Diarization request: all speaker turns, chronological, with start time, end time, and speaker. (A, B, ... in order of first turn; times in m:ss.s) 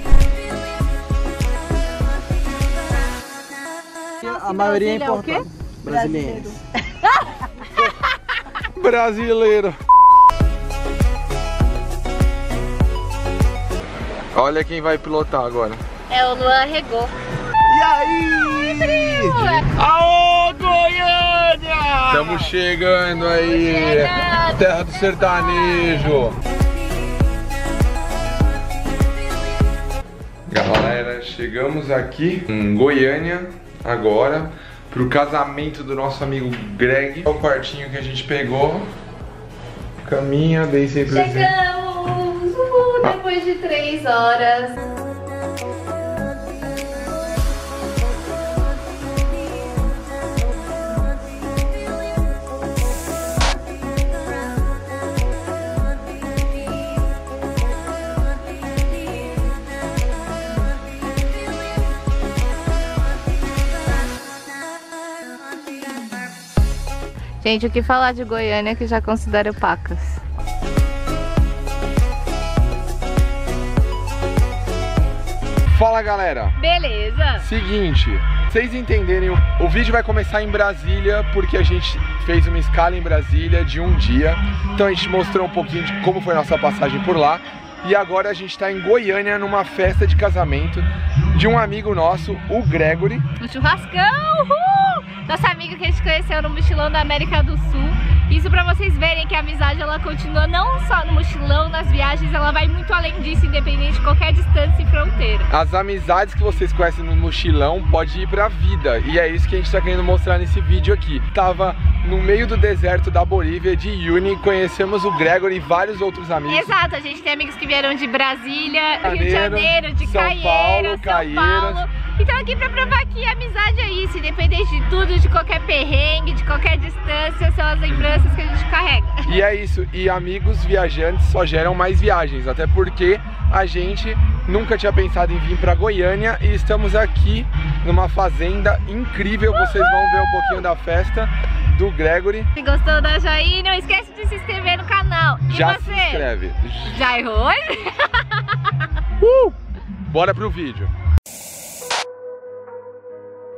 0:04.2-0:06.6 A
0:04.5-0:05.4 B
0:08.7-0:09.8 C
0:14.3-0:15.8 C
0:16.1-0:17.1 B
0:17.8-0:19.1 C
0:18.8-0:19.6 B
0:19.7-0:21.5 C
0:22.1-0:26.4 C
0:23.5-0:24.6 B
0:25.6-0:25.9 B
0:30.5-0:38.9 C
0:40.0-0:41.5 C
0:41.1-0:44.8 B
1:07.4-1:10.2 B
1:15.7-1:16.6 C
1:16.6-1:17.4 B
1:17.4-1:33.2 C
1:33.4-1:45.5 B
1:45.5-1:56.7 C
1:56.5-2:09.4 B
1:59.0-2:01.8 C
2:09.2-2:22.5 C
2:22.5-2:26.3 B
2:25.5-2:27.1 C
2:26.9-2:28.2 B
2:29.2-2:29.5 C
2:30.1-2:30.9 C